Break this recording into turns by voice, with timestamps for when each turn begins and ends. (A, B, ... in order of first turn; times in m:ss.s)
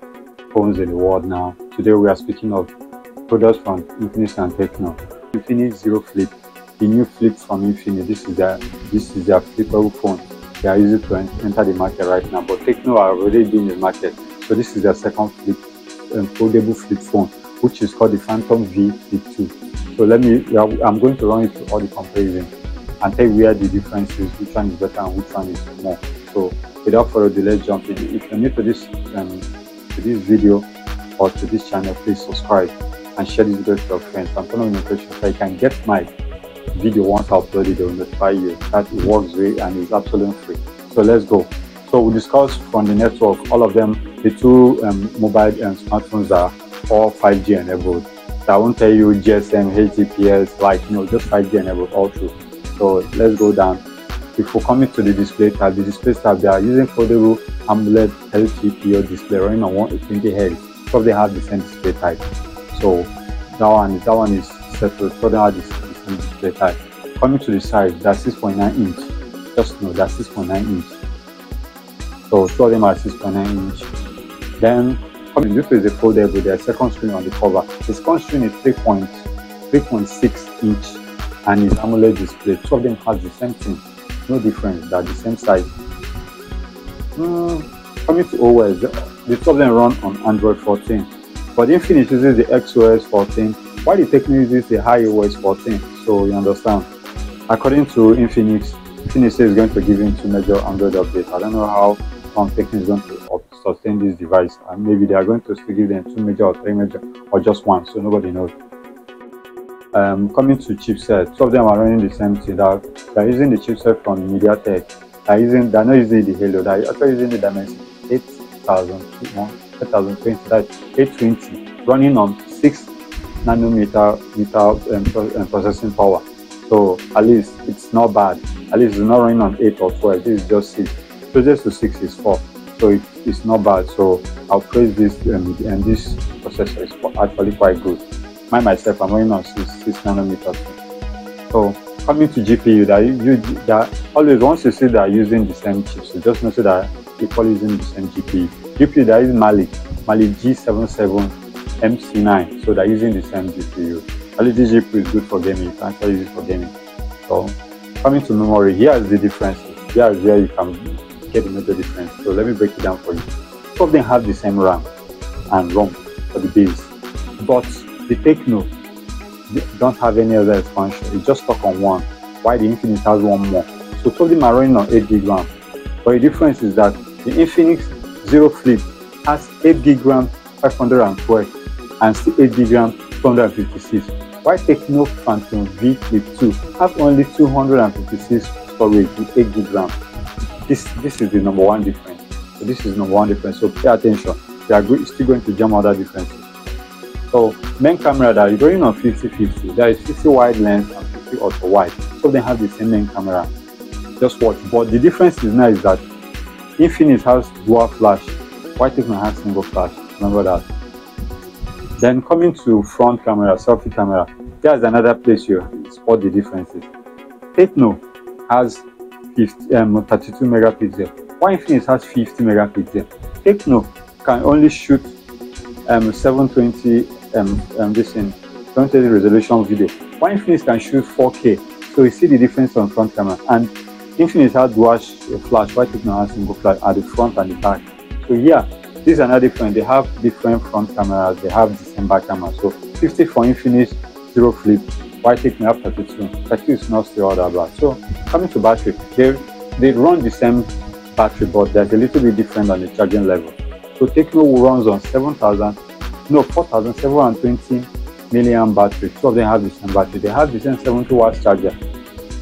0:00.5-0:02.7 A
0:03.3-0:15.6 A
0:16.1-0:30.7 A
0:31.2-0:36.1 A
0:36.7-0:53.8 A
0:54.4-1:02.2 A
1:02.7-1:11.0 A
1:12.3-1:13.9 A
1:14.6-1:25.7 A
1:27.2-1:36.9 A
1:37.5-1:48.5 A
1:49.9-2:02.9 A
2:03.4-2:20.8 A
2:21.5-2:36.7 A
2:37.2-2:44.9 A
2:45.5-2:48.7 A
2:49.5-2:55.5 A
2:56.0-3:09.9 A
3:10.6-3:16.7 A
3:17.3-3:23.5 A
3:24.2-3:26.0 A
3:26.8-3:30.6 A
3:32.0-3:36.9 A
3:37.5-3:45.2 A
3:45.9-4:21.7 A